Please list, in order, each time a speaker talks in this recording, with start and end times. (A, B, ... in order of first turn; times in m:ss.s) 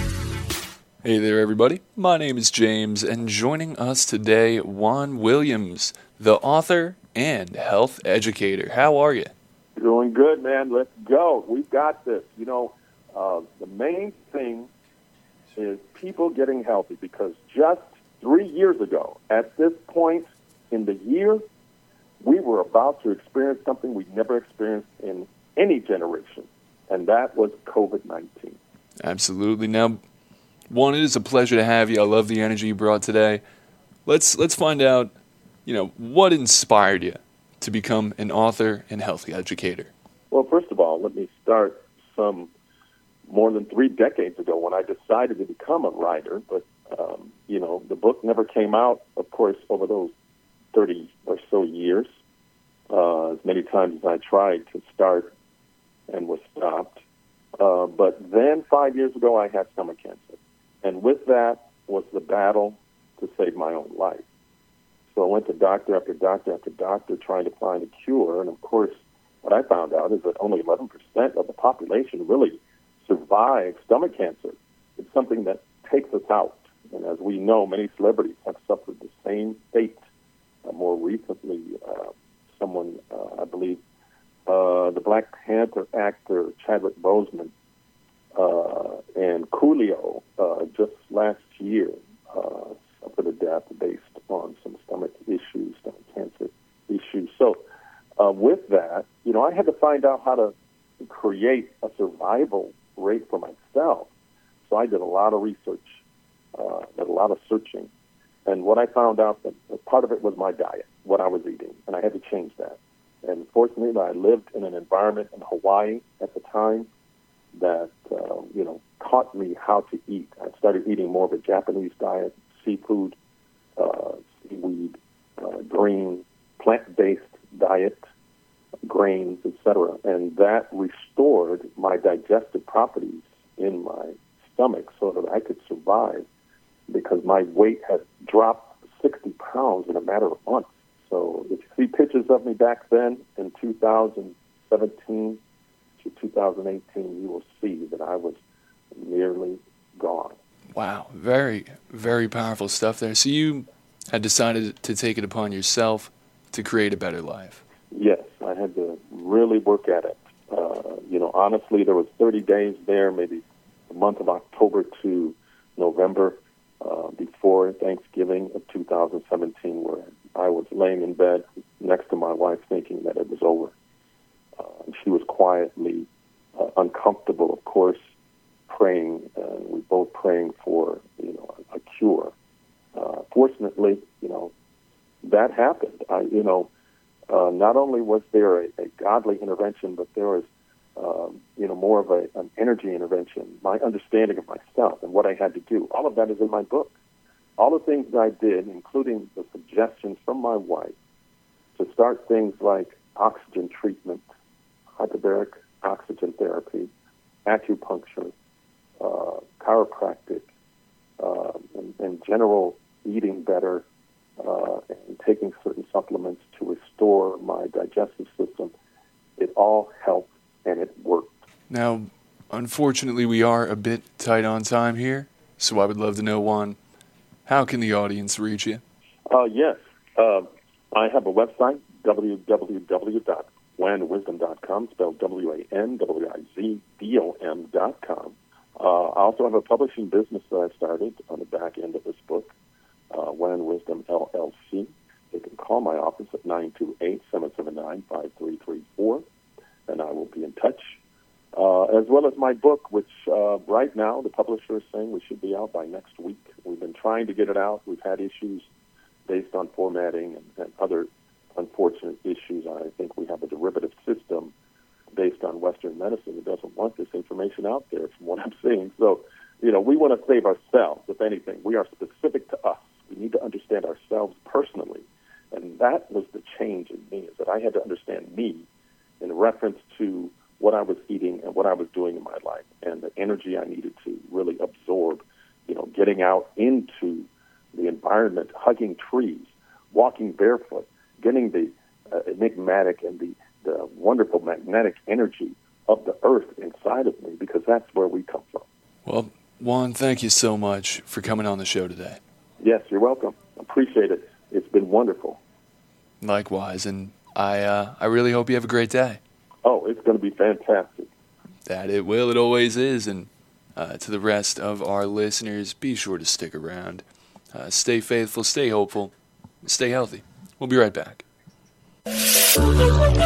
0:01.0-0:09.3 A
0:09.8-0:14.7 B
0:15.6-0:21.4 B
0:22.2-0:28.6 B
0:29.0-0:30.0 A
0:30.7-0:33.4 A
0:34.1-0:35.1 A
0:35.7-0:39.9 A
0:40.3-0:42.5 B
0:43.3-0:50.1 B
0:50.7-0:52.1 B
0:52.9-0:55.3 B
0:56.1-0:57.0 B
0:57.6-1:04.3 B
1:05.1-1:20.0 B
1:20.6-1:23.8 B
1:24.5-1:27.5 B
1:28.4-1:37.6 B
1:38.2-1:44.1 B
1:44.6-1:46.0 B
1:46.5-1:47.9 B
1:48.5-1:56.9 B
1:57.5-2:03.2 B
2:03.8-2:08.0 B
2:08.8-2:16.3 B
2:16.9-2:25.4 B
2:26.0-2:28.4 B
2:28.9-2:30.4 B
2:30.7-2:37.6 A
2:37.9-2:53.7 B
2:54.6-2:58.0 B
2:58.7-3:02.3 B
3:03.0-3:04.5 B
3:05.2-3:06.7 B
3:07.3-3:16.9 B
3:17.6-3:21.0 B
3:21.8-3:24.2 B
3:25.0-3:26.9 B
3:27.4-3:28.3 B
3:29.0-3:30.5 B
3:31.2-3:33.9 B
3:34.4-3:38.7 B
3:39.4-3:41.3 B
3:41.7-3:46.8 A
3:47.5-3:48.8 A
3:49.3-4:02.5 B
4:03.1-4:09.2 B
4:09.9-4:11.0 B
4:11.5-4:18.6 B
4:19.3-4:24.5 B
4:25.1-4:38.7 B
4:39.2-4:58.7 B
4:59.1-5:02.2 A
5:02.6-5:05.4 B
5:06.2-5:09.2 A
5:09.6-5:11.1 B
5:11.7-5:21.2 A